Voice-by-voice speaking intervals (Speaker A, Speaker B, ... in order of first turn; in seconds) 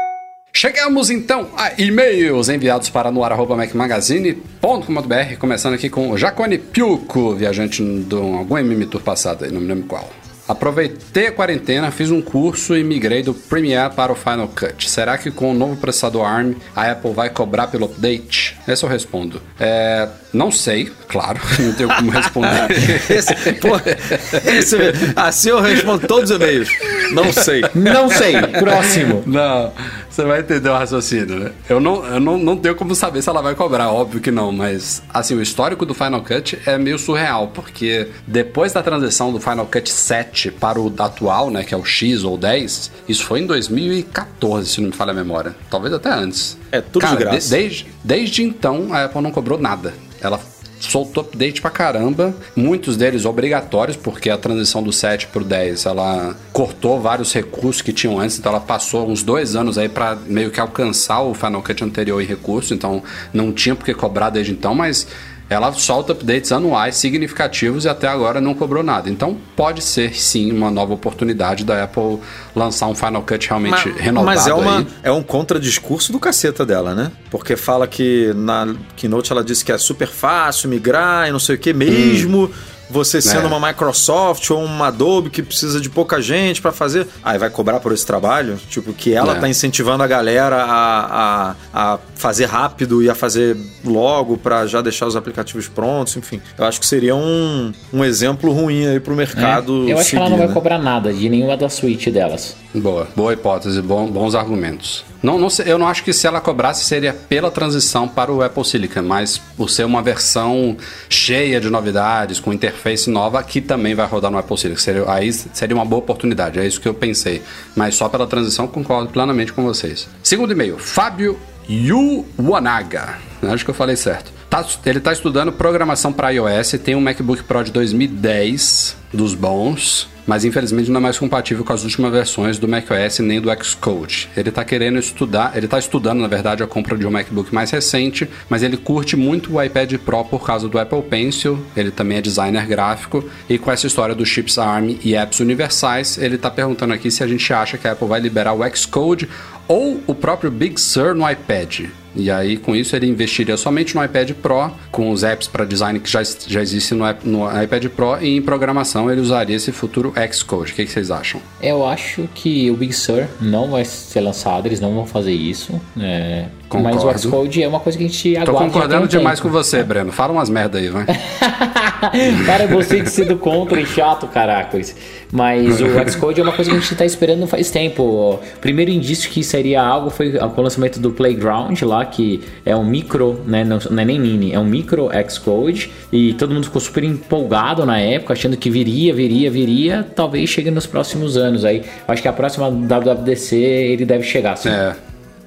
Speaker A: 0.5-25.1, 25.7-26.1, 26.8-74.9, 81.9-82.3, 83.2-83.6, 89.2-89.5, 102.7-161.4, 166.7-167.4, 168.4-171.1, 172.3-173.2, 175.7-176.2, 194.6-195.0
Speaker B: 22.0-28.2, 46.7-47.6, 73.7-100.6
Speaker C: 27.7-29.3, 99.3-102.6, 161.6-169.8, 171.1-194.8